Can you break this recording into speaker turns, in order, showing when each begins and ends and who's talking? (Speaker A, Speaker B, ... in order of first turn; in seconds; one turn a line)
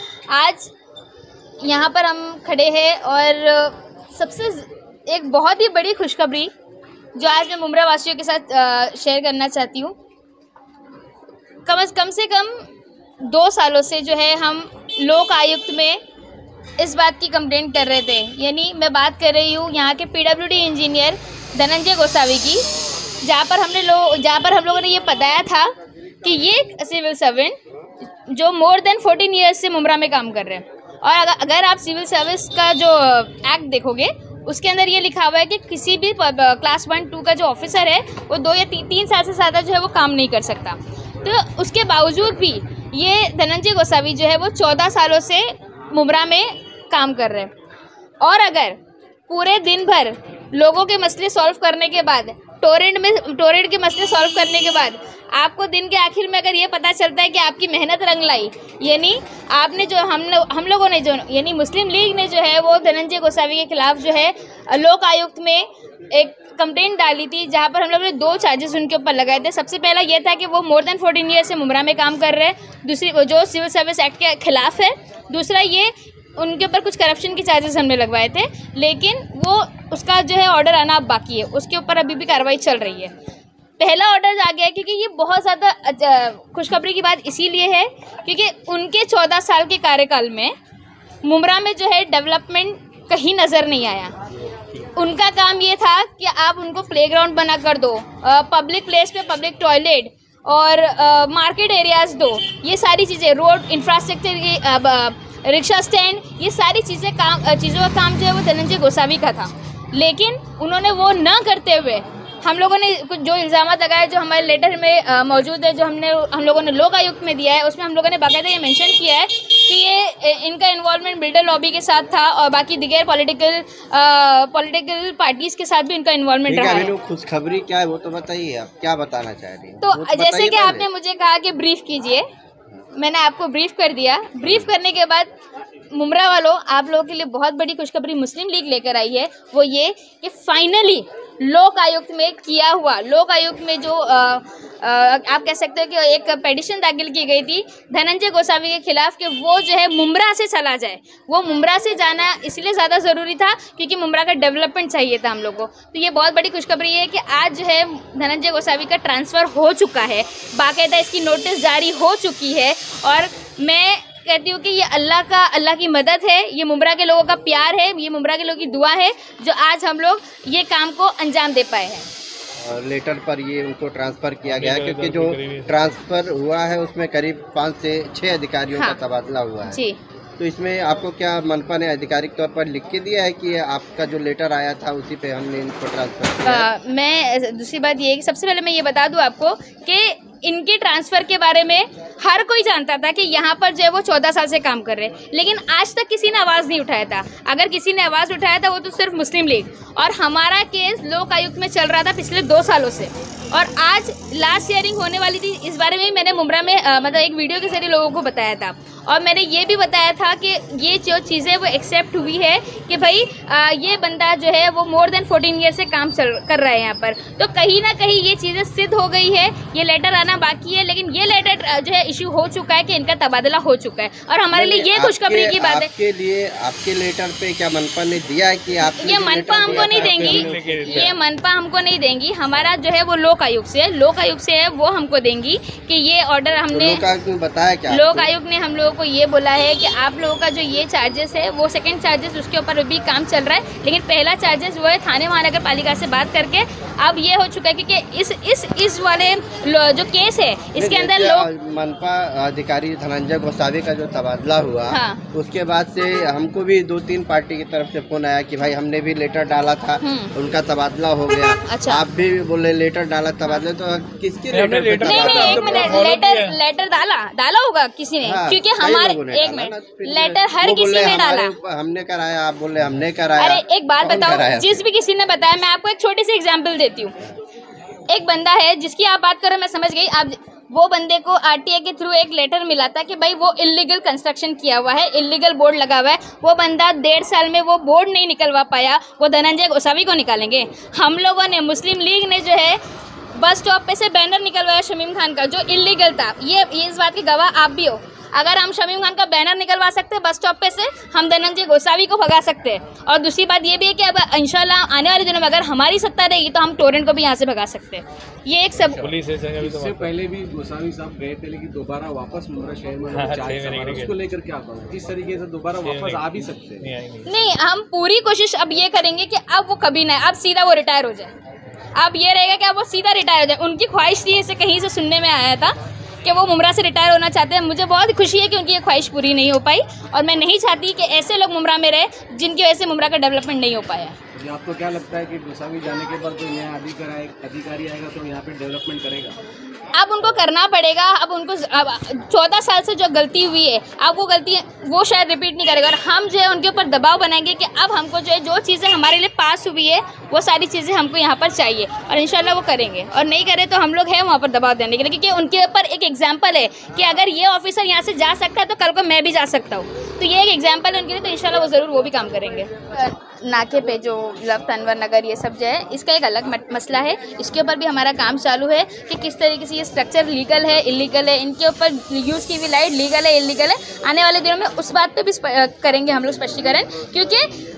Speaker A: 0.3-0.7
Speaker A: 1.6-6.5
Speaker A: 7.2-10.0
Speaker A: 11.7-12.7
Speaker A: 13.2-16.0
Speaker A: 16.8-22.6
Speaker A: 23.2-27.6
Speaker A: 28.2-47.5
Speaker A: 48.2-83.1
Speaker A: 83.8-90.5
Speaker A: 91.2-94.2
Speaker A: 94.9-126.9
Speaker B: 126.5-130.9
Speaker A: 129.8-132.3
Speaker A: 132.9-135.3
Speaker B: 134.4-134.7
Speaker A: 135.9-172.1
Speaker B: 172.6-179.8
Speaker C: 174.4-175.9
Speaker A: 178.7-179.0
Speaker A: 179.7-180.0
Speaker B: 180.4-186.7
Speaker A: 186.4-225.9
Speaker B: 224.5-231.1
Speaker A: 229.0-237.1
Speaker C: 229.5-231.2
Speaker B: 236.7-238.3
Speaker A: 237.9-251.5
Speaker B: 250.8-266.0
Speaker A: 254.9-255.2
Speaker A: 260.0-260.3
Speaker A: 261.7-262.0
Speaker C: 264.5-266.6
Speaker A: 265.0-271.6
Speaker B: 268.2-274.8
Speaker A: 273.4-277.2
Speaker A: 278.1-292.8
Speaker A: 293.3-309.1
Speaker D: 308.8-316.9
Speaker C: 308.9-310.1
Speaker C: 313.1-314.2
Speaker C: 315.8-317.3
Speaker A: 317.2-321.3
Speaker A: 321.9-334.2
Speaker D: 334.4-339.4
Speaker A: 339.9-377.6